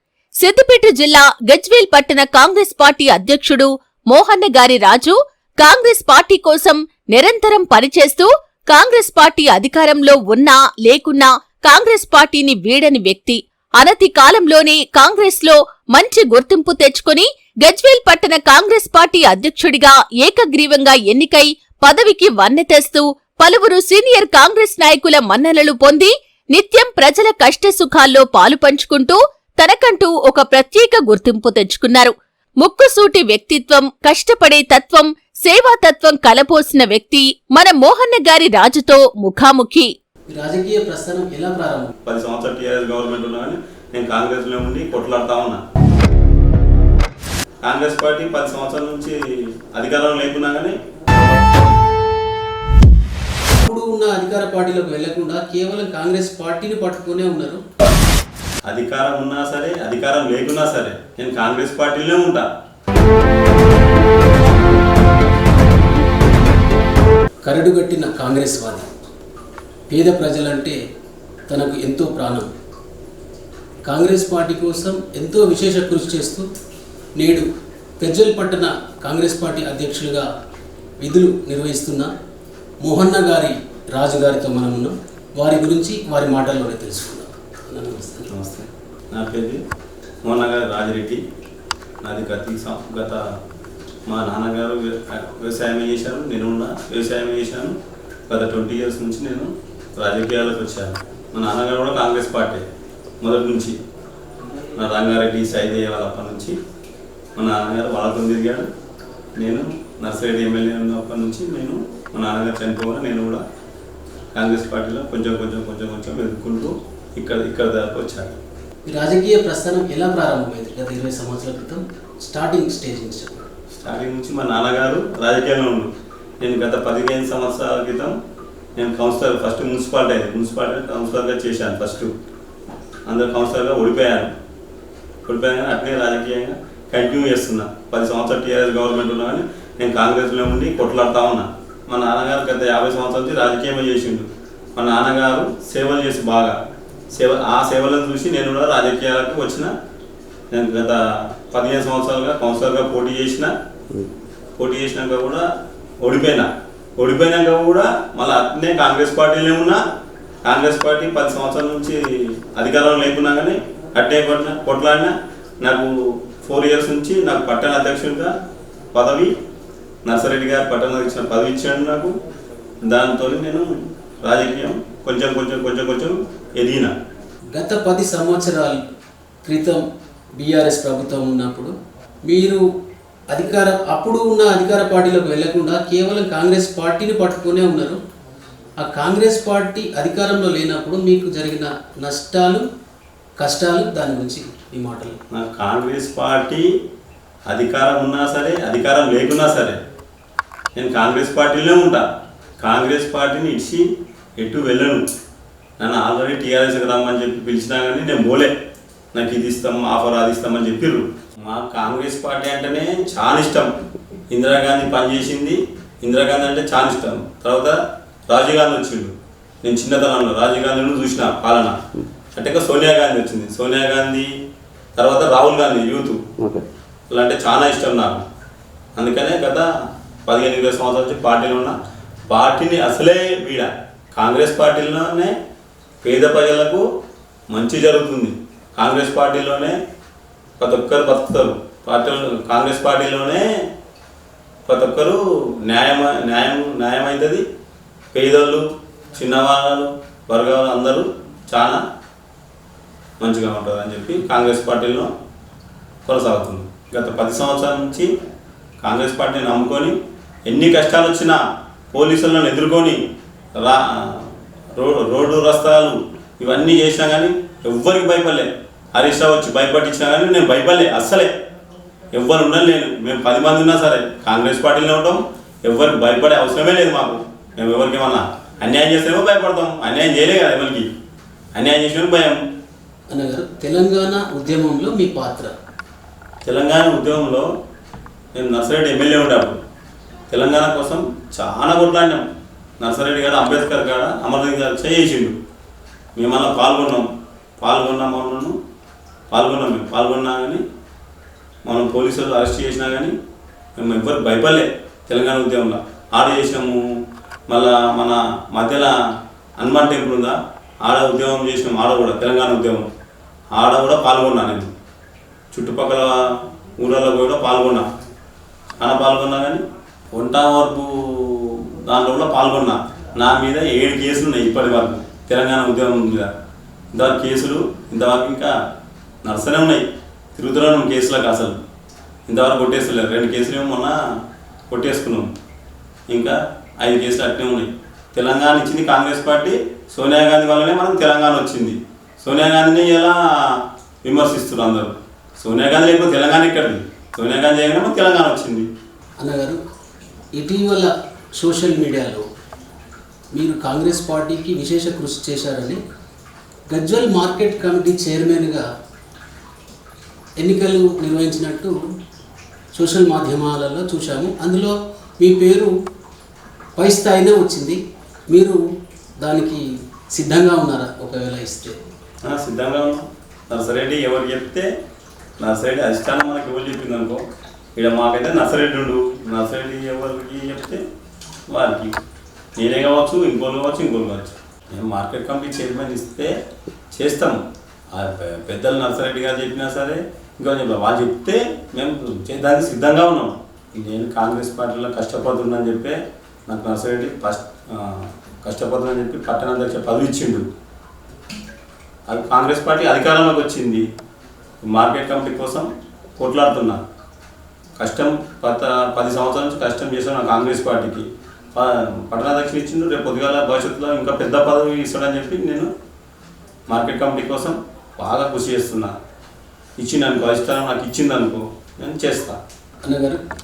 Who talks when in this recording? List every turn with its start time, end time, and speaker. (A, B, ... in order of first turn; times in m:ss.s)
0:00.4-0:39.9 A
0:40.3-0:41.9 B
0:42.0-0:45.6 C
0:47.6-0:50.8 C
0:53.5-0:57.6 B
0:58.6-1:02.5 C
1:07.4-1:08.9 B
1:09.9-1:10.8 B
1:11.5-1:12.5 B
1:13.8-1:16.5 B
1:17.2-1:17.5 B
1:18.0-1:20.3 B
1:21.0-1:22.1 B
1:22.8-1:28.3 B
1:28.3-1:29.6 C
1:30.2-1:31.2 C
1:32.0-1:33.2 C
1:34.1-1:37.8 C
1:38.3-1:42.6 C
1:43.2-1:43.8 C
1:44.7-1:46.6 C
1:47.4-1:48.7 C
1:49.4-1:53.4 C
1:54.3-1:58.4 C
1:58.8-2:03.4 B
2:03.7-2:08.1 C
2:08.8-2:12.1 C
2:13.0-2:14.3 C
2:15.2-2:26.6 C
2:27.1-2:29.7 C
2:30.5-2:33.5 C
2:34.6-2:35.5 C
2:36.0-2:39.8 C
2:40.4-2:48.3 C
2:48.9-2:49.3 C
2:50.0-2:52.1 C
2:52.8-2:53.7 C
2:54.2-2:56.9 C
2:57.5-2:58.8 B
2:59.4-2:59.8 B
3:00.4-3:01.7 B
3:02.2-3:02.6 B
3:03.3-3:08.0 B
3:08.8-3:12.6 B
3:13.4-3:15.2 B
3:15.3-3:16.7 C
3:17.5-3:19.8 C
3:20.7-3:22.0 C
3:22.6-3:25.0 C
3:25.8-3:28.5 C
3:29.1-3:33.7 C
3:34.3-3:41.8 C
3:42.3-3:44.3 C
3:45.0-3:46.2 C
3:47.1-3:48.2 C
3:49.0-3:49.7 C
3:50.2-3:51.8 C
3:52.3-3:55.3 C
3:56.0-3:56.8 C
3:57.5-3:59.8 C
4:00.6-4:03.5 C
4:04.6-4:07.4 C
4:08.1-4:11.8 C
4:13.2-4:15.1 C
4:16.0-4:18.1 C
4:18.8-4:21.4 C
4:21.9-4:23.0 C
4:23.6-4:31.3 C
4:32.1-4:40.9 C
4:41.5-4:42.4 C
4:43.1-4:45.5 B
4:46.4-4:47.5 C
4:48.3-4:49.6 C
4:50.3-4:52.2 C
4:52.8-4:55.4 C
4:56.2-4:57.1 C
4:57.6-4:58.6 C
4:59.3-5:00.6 C
5:01.6-5:03.1 C
5:03.8-5:06.9 C
5:07.5-5:09.0 C
5:09.6-5:12.9 C
5:13.5-5:14.7 C
5:15.5-5:17.9 C
5:18.8-5:26.3 C
5:26.9-5:28.5 C
5:29.2-5:31.6 C
5:32.3-5:34.0 C
5:34.7-5:35.3 C
5:36.1-5:48.7 C
5:49.2-5:49.6 B
5:50.4-5:52.2 B
5:53.3-5:55.8 B
5:56.7-5:58.7 B
6:00.4-6:01.8 B
6:02.7-6:05.7 B
6:06.8-6:07.8 B
6:08.3-6:08.6 B
6:09.2-6:11.8 B
6:12.2-6:14.7 C
6:15.4-6:17.2 C
6:17.7-6:20.8 C
6:21.5-6:22.0 C
6:22.6-6:26.3 C
6:26.9-6:40.5 C
6:42.1-6:43.8 C
6:44.6-6:46.8 C
6:47.8-6:55.7 C
6:56.7-6:59.0 C
6:59.8-7:02.4 C
7:02.8-7:03.2 B